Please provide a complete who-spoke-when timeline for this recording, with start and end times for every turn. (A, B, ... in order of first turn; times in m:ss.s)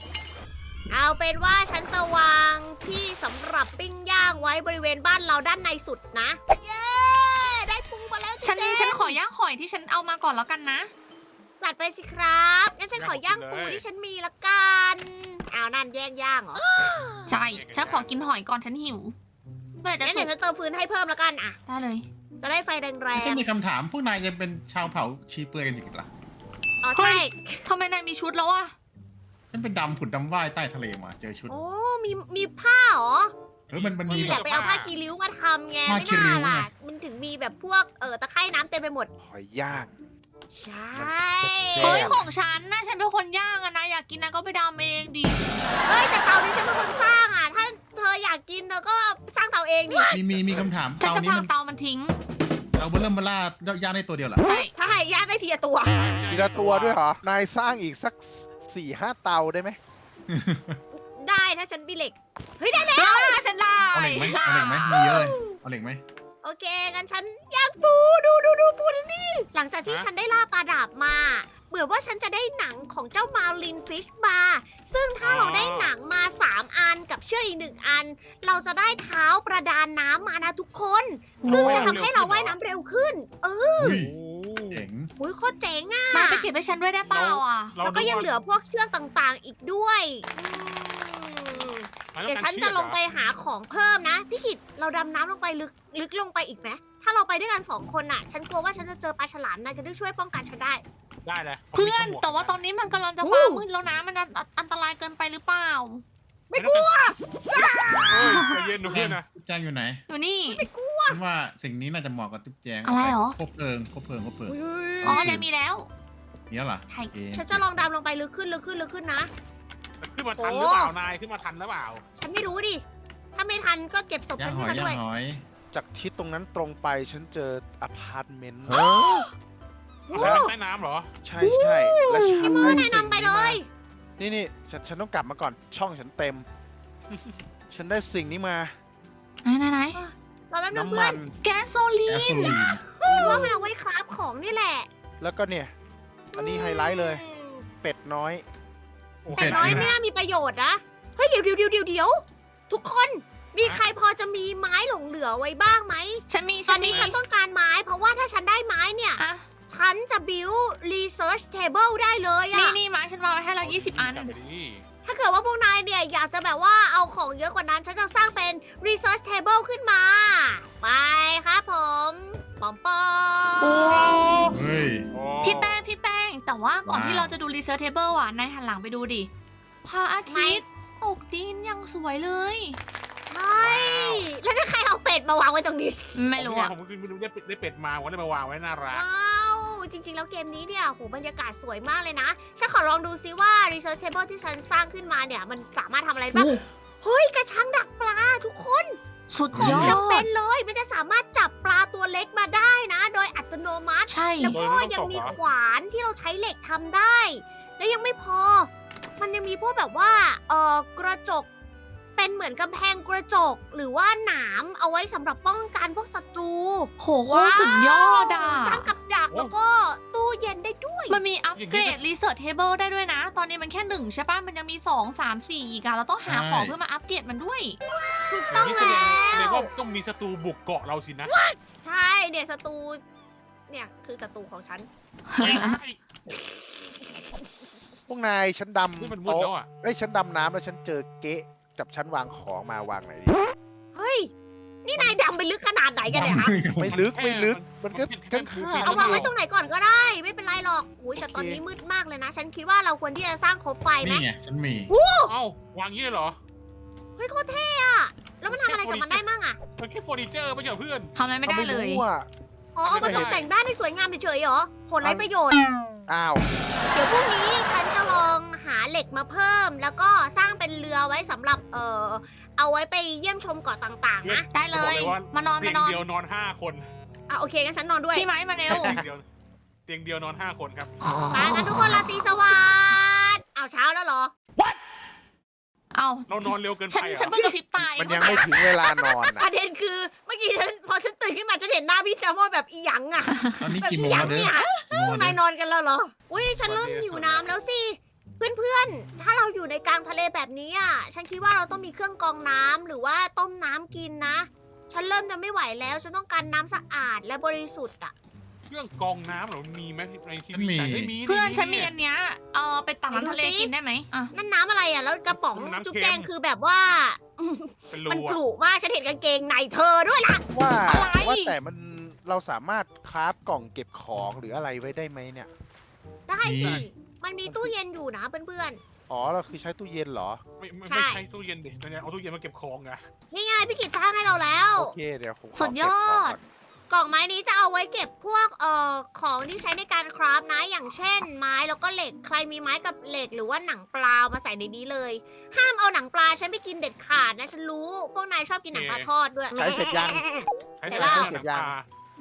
0:00.9-0:09.2 A
0:08.4-0:10.9 B
0:11.6-0:17.3 A
0:12.9-0:13.8 C
0:17.3-0:19.1 B
0:17.3-0:18.1 C
0:19.8-0:20.3 B
0:20.0-0:21.6 A
0:21.7-0:22.0 B
0:22.4-0:23.4 A
0:23.1-0:26.1 D
0:26.8-0:27.6 A
0:26.9-0:28.7 B
0:29.5-0:31.5 D
0:31.5-0:33.3 A
0:33.7-0:35.0 C
0:33.7-0:34.5 D
0:34.1-0:39.1 A
0:35.8-0:36.7 D
0:39.2-0:39.9 E
0:40.5-0:42.1 A
0:40.9-0:42.2 E
0:41.8-0:45.7 B
0:45.8-0:50.1 A
0:50.1-0:51.5 D
0:51.0-0:52.2 B
0:52.8-0:54.4 D
0:54.4-0:54.7 B
0:54.7-0:56.0 A
0:55.9-0:57.0 C
0:56.3-0:59.8 E
1:00.3-1:00.8 D
1:00.9-1:03.4 A
1:02.9-1:05.2 B
1:03.9-1:06.0 D
1:05.0-1:05.5 A
1:06.4-1:24.0 A
1:15.2-1:15.9 C
1:21.4-1:22.0 B
1:21.5-1:22.6 C
1:23.8-1:24.1 D
1:23.8-1:24.8 C
1:24.7-1:25.1 D
1:25.2-1:26.5 A
1:26.1-1:27.8 B
1:27.0-1:28.3 C
1:27.8-1:40.8 A
1:32.1-1:33.0 C
1:41.2-1:42.6 C
1:41.7-1:46.0 B
1:43.2-1:43.6 A
1:46.5-1:48.5 A
1:46.5-1:46.9 C
1:48.1-1:49.2 C
1:48.3-1:48.5 B
1:48.8-1:50.0 D
1:50.1-1:50.6 B
1:50.5-1:51.2 A
1:51.1-1:55.4 D
1:52.8-1:53.4 B
1:54.5-1:55.2 A
1:55.0-1:55.9 B
1:56.5-1:57.6 D
1:57.3-1:59.3 A
2:00.0-2:02.0 C
2:00.4-2:00.9 A
2:02.2-2:02.8 A
2:03.3-2:05.0 A
2:04.4-2:05.4 D
2:05.7-2:08.8 E
2:10.1-2:10.5 A
2:10.1-2:10.5 E
2:10.1-2:11.1 C
2:11.2-2:13.6 E
2:11.4-2:12.9 B
2:12.4-2:13.7 A
2:14.2-2:16.4 E
2:17.1-2:17.4 C
2:17.7-2:18.7 E
2:19.4-2:20.0 B
2:20.0-2:21.2 A
2:20.7-2:21.4 E
2:21.4-2:22.6 B
2:22.1-2:22.8 D
2:23.0-2:24.9 A
2:23.0-2:23.7 E
2:25.2-2:25.7 E
2:26.3-2:28.4 E
2:26.3-2:27.7 A
2:29.2-2:30.0 C
2:29.3-2:42.8 A
2:29.4-2:29.9 D
2:36.3-2:37.1 B
2:36.8-2:37.2 C
2:39.2-2:39.4 B
2:42.5-2:44.3 B
2:43.6-2:44.8 C
2:45.0-2:54.5 A
2:53.6-2:54.5 B
2:54.5-2:55.0 D
2:55.1-2:55.8 C
2:55.4-2:59.3 B
2:56.8-2:57.4 D
2:59.8-3:02.8 B
3:00.3-3:00.6 A
3:03.3-3:06.2 A
3:03.6-3:04.3 C
3:06.1-3:06.7 B
3:06.4-3:09.0 C
3:08.9-3:19.0 A
3:16.3-3:16.6 B
3:19.3-3:20.3 B
3:19.5-3:19.9 D
3:19.6-3:31.5 A
3:24.1-3:24.6 B
3:24.5-3:25.4 C
3:32.2-3:41.2 A
3:37.0-3:38.9 B
3:41.1-3:47.8 B
3:41.6-3:42.0 C
3:46.2-3:46.8 D
3:48.3-3:49.7 A
3:48.5-3:51.3 C
3:51.3-3:53.0 A
3:53.7-3:54.9 A
3:55.3-3:55.8 B
3:55.4-3:56.0 C
3:56.3-3:57.4 A
3:58.1-4:03.4 E
3:59.0-3:59.7 C
4:03.9-4:04.3 A
4:04.8-4:06.7 A
4:06.0-4:07.0 D
4:06.8-4:09.3 E
4:06.9-4:09.3 C
4:08.8-4:14.2 A
4:11.2-4:11.6 E
4:14.0-4:14.9 D
4:14.9-4:15.3 A
4:15.2-4:16.4 C
4:17.2-4:19.6 A
4:18.4-4:19.2 C
4:19.8-4:21.1 C
4:21.1-4:22.0 B
4:21.4-4:22.3 E
4:22.7-4:25.6 A
4:22.8-4:23.5 C
4:23.0-4:23.4 E
4:25.0-4:25.3 E
4:26.1-4:26.4 E
4:26.9-4:34.5 A
4:34.2-4:36.9 C
4:34.5-4:36.0 B
4:37.3-4:38.3 A
4:38.1-4:39.0 B
4:38.7-4:39.2 C
4:38.7-4:39.0 E
4:39.8-4:40.9 C
4:41.3-4:44.3 A
4:45.9-4:48.5 B
4:46.3-4:47.4 C
4:47.7-4:49.5 E
4:48.2-5:08.1 A
4:53.3-4:53.8 B
4:53.6-4:55.4 D
4:54.5-4:54.8 B
4:56.4-4:57.5 C
5:08.7-5:11.9 C
5:10.5-5:11.1 D
5:11.2-5:14.3 B
5:13.1-5:13.7 A
5:14.3-5:20.4 A
5:15.3-5:16.3 C
5:17.9-5:18.4 C
5:20.5-5:25.5 E
5:20.9-5:21.6 B
5:26.3-5:28.8 A
5:26.4-5:26.9 D
5:26.6-5:26.8 E
5:27.4-5:27.7 E
5:29.1-5:30.4 E
5:30.6-5:33.0 C
5:30.9-5:31.2 A
5:33.3-5:34.9 A
5:34.8-5:36.4 E
5:35.6-5:36.4 B
5:36.9-5:51.4 A
5:48.7-5:49.1 C
5:49.5-5:50.3 E
5:50.8-5:51.8 C
5:50.9-5:51.7 E